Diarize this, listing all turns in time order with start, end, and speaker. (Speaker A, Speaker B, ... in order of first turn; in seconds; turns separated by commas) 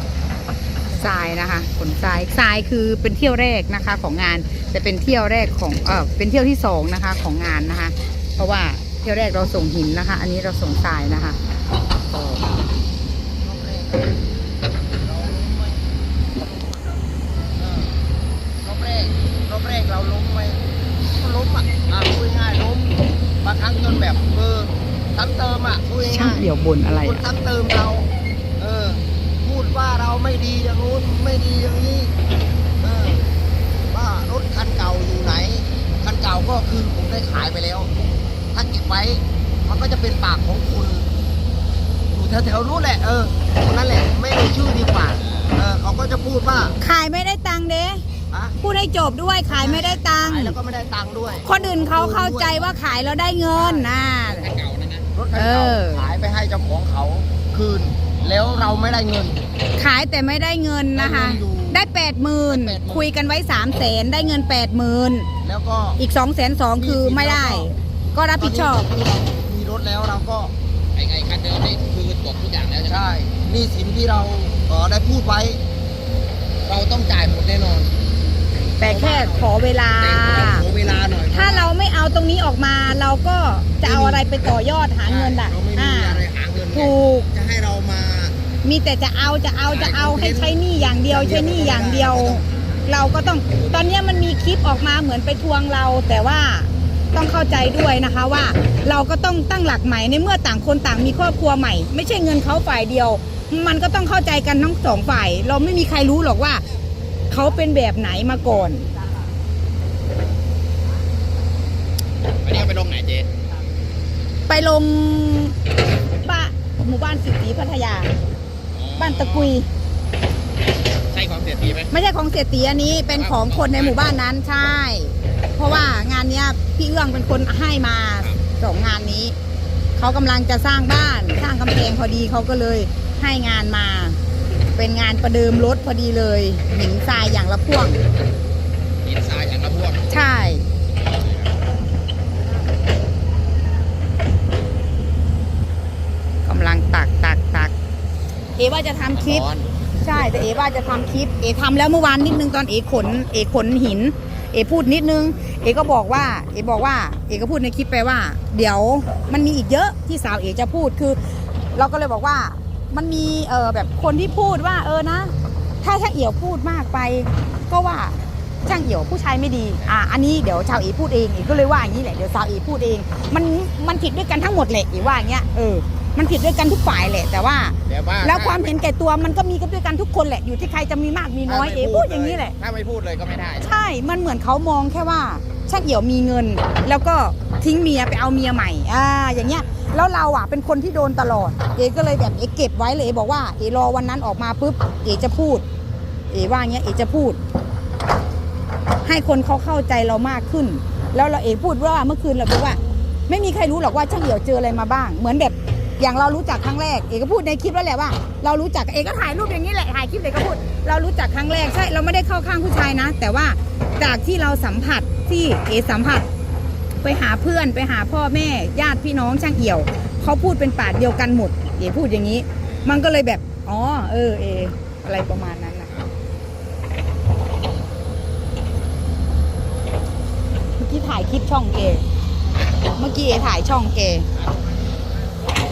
Speaker A: 0.9-11.4, Speaker A: 12.1-12.4, Speaker B: 13.4-14.2, Speaker B: 14.9-17.0, Speaker B: 17.5-17.9, Speaker B: 18.6-20.6, Speaker B: 21.1-26.5, Speaker A: 26.0-27.2, Speaker B: 27.0-32.1, Speaker B: 32.8-33.2, Speaker B: 33.9-37.9, Speaker B: 38.5-41.1, Speaker B: 42.1-46.8, Speaker C: 45.2-45.5, Speaker A: 46.8-48.0, Speaker B: 48.3-48.5, Speaker A: 48.6-50.6, Speaker B: 49.5-52.8, Speaker A: 51.4-54.5, Speaker B: 53.5-53.9, Speaker C: 54.2-55.1, Speaker B: 55.1-59.4, Speaker A: 55.3-56.2, Speaker A: 59.8-65.3, Speaker B: 60.9-61.9, Speaker B: 62.5-63.1, Speaker B: 65.4-66.0, Speaker A: 66.0-68.9, Speaker B: 66.8-67.7, Speaker B: 68.4-70.5, Speaker C: 70.9-73.1, Speaker B: 72.8-75.6, Speaker B: 76.6-77.9, Speaker A: 78.8-80.7, Speaker B: 78.8-81.7, Speaker A: 81.3-87.3, Speaker B: 83.8-84.3, Speaker B: 85.0-88.3, Speaker A: 88.6-106.6, Speaker B: 89.7-92.4, Speaker A: 107.3-108.8, Speaker C: 112.4-113.3, Speaker A: 114.5-115.6, Speaker A: 116.2-118.1, Speaker C: 118.7-119.5, Speaker A: 119.0-119.7, Speaker C: 121.1-121.9, Speaker A: 121.9-129.3, Speaker C: 123.1-124.0, Speaker A: 130.0-134.2, Speaker A: 134.7-138.0, Speaker C: 139.0-140.2, Speaker A: 140.1-140.6, Speaker C: 140.9-141.5, Speaker A: 146.4-147.7, Speaker A: 148.6-149.4, Speaker C: 149.1-149.7, Speaker A: 150.0-182.5, Speaker C: 154.3-154.5, Speaker C: 175.0-175.3, Speaker C: 177.8-178.7, Speaker C: 181.4-183.8, Speaker A: 183.6-195.6, Speaker A: 196.3-197.4, Speaker A: 199.0-216.3, Speaker A: 217.0-225.9, Speaker C: 222.6-223.0, Speaker A: 230.8-232.0, Speaker A: 233.0-234.2, Speaker C: 234.3-234.9